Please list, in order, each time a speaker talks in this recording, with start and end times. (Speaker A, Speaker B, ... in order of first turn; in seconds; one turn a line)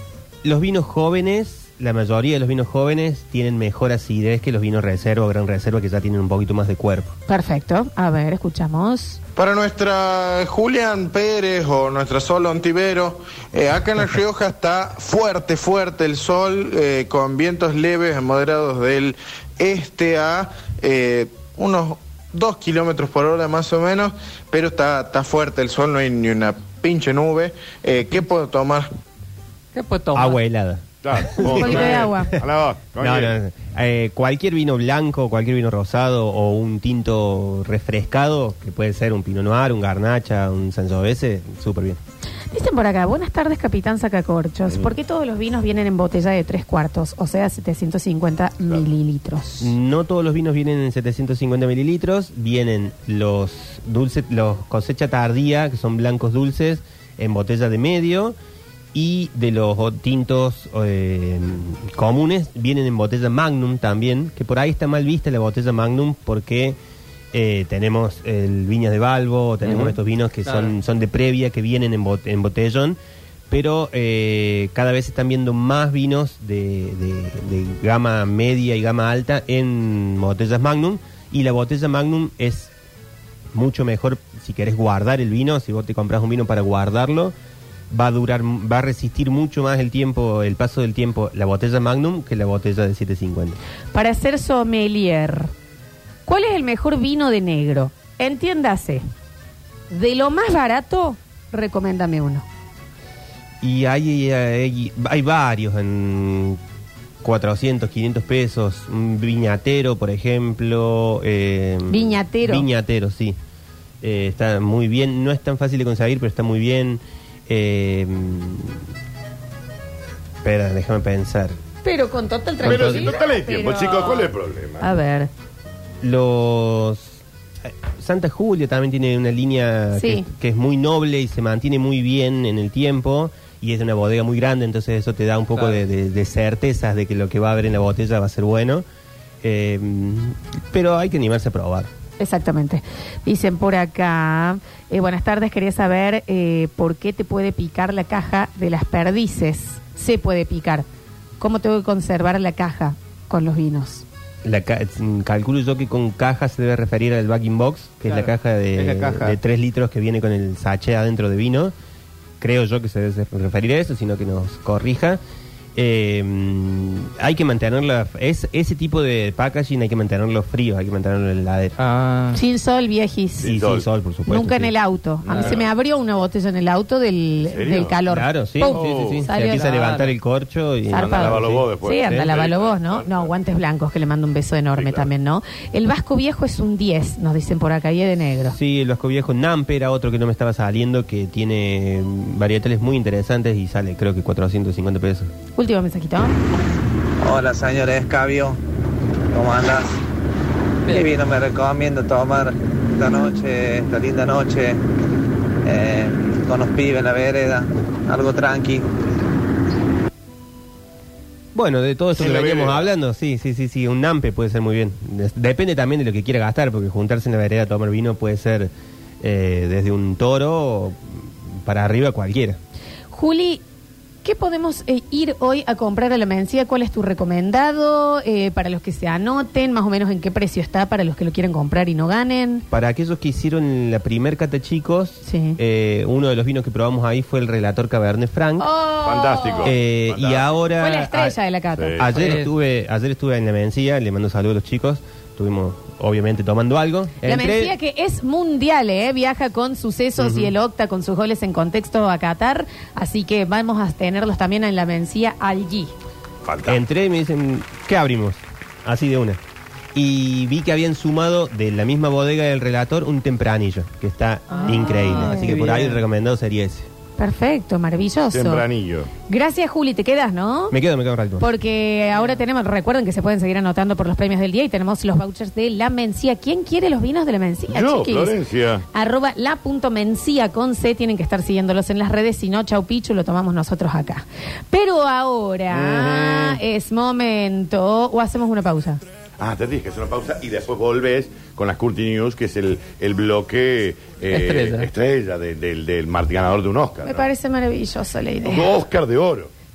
Speaker A: 0.4-7.1
Speaker B: 7.3-9.2
Speaker C: 9.4-28.9
Speaker D: 29.7-30.4
Speaker A: 30.1-32.2
Speaker E: 31.0-33.4
Speaker B: 31.4-32.4
Speaker A: 33.0-42.0
Speaker B: 42.5-49.7
Speaker A: 49.6-58.4
Speaker A: 58.9-66.8
Speaker A: 67.3-73.0
Speaker D: 70.5-70.7
Speaker A: 73.5-82.7
Speaker A: 83.5-87.3
Speaker A: 87.9-93.6
Speaker B: 93.9-95.5
Speaker B: 96.3-99.0
Speaker B: 99.9-102.5
Speaker A: 103.6-106.6
Speaker A: 107.2-113.3
Speaker B: 111.9-112.7
Speaker A: 114.0-118.8
Speaker A: 120.4-121.6
Speaker B: 121.8-125.3
Speaker E: 122.6-124.9
Speaker A: 122.6-123.2
Speaker A: 126.0-127.2
Speaker A: 127.8-138.8
Speaker B: 129.9-130.3
Speaker A: 139.4-141.9
Speaker B: 142.2-150.8
Speaker B: 151.4-154.1
Speaker A: 154.4-161.7
Speaker D: 158.1-159.4
Speaker A: 162.4-165.2
Speaker A: 165.8-171.8
Speaker D: 171.8-172.4
Speaker B: 172.3-173.5
Speaker E: 173.4-173.9
Speaker A: 173.4-174.7
Speaker B: 174.3-180.0
Speaker E: 175.2-175.7
Speaker E: 177.4-178.0
Speaker A: 178.1-181.7
Speaker E: 178.7-179.3
Speaker D: 179.5-180.1
Speaker B: 180.9-188.6
Speaker E: 181.0-183.3
Speaker E: 184.7-185.1
Speaker A: 188.5-195.3
Speaker B: 195.6-196.4
Speaker F: 197.2-198.6
Speaker F: 199.3-200.0
Speaker F: 200.9-204.8
Speaker F: 205.7-208.9
Speaker A: 211.6-222.6
Speaker E: 212.2-212.9
Speaker B: 223.1-223.6
Speaker B: 224.2-232.7
Speaker A: 232.7-238.7
Speaker B: 235.2-235.6
Speaker B: 238.6-239.7
Speaker E: 239.0-240.7
Speaker A: 239.6-241.4
Speaker B: 240.8-242.4
Speaker E: 241.8-242.2
Speaker A: 242.0-247.7
Speaker D: 242.1-242.5
Speaker B: 247.2-255.9
Speaker A: 250.2-250.5
Speaker E: 256.5-256.8
Speaker A: 256.7-259.4
Speaker A: 259.9-266.9
Speaker D: 264.6-266.0
Speaker B: 264.6-265.5
Speaker B: 267.2-268.6
Speaker E: 268.3-269.1
Speaker B: 269.3-270.8
Speaker A: 270.7-271.5
Speaker B: 271.4-278.4
Speaker E: 277.7-278.8
Speaker B: 278.9-289.0
Speaker E: 285.7-286.6
Speaker E: 289.4-297.3
Speaker D: 294.3-294.9
Speaker B: 297.0-298.8
Speaker E: 298.4-299.5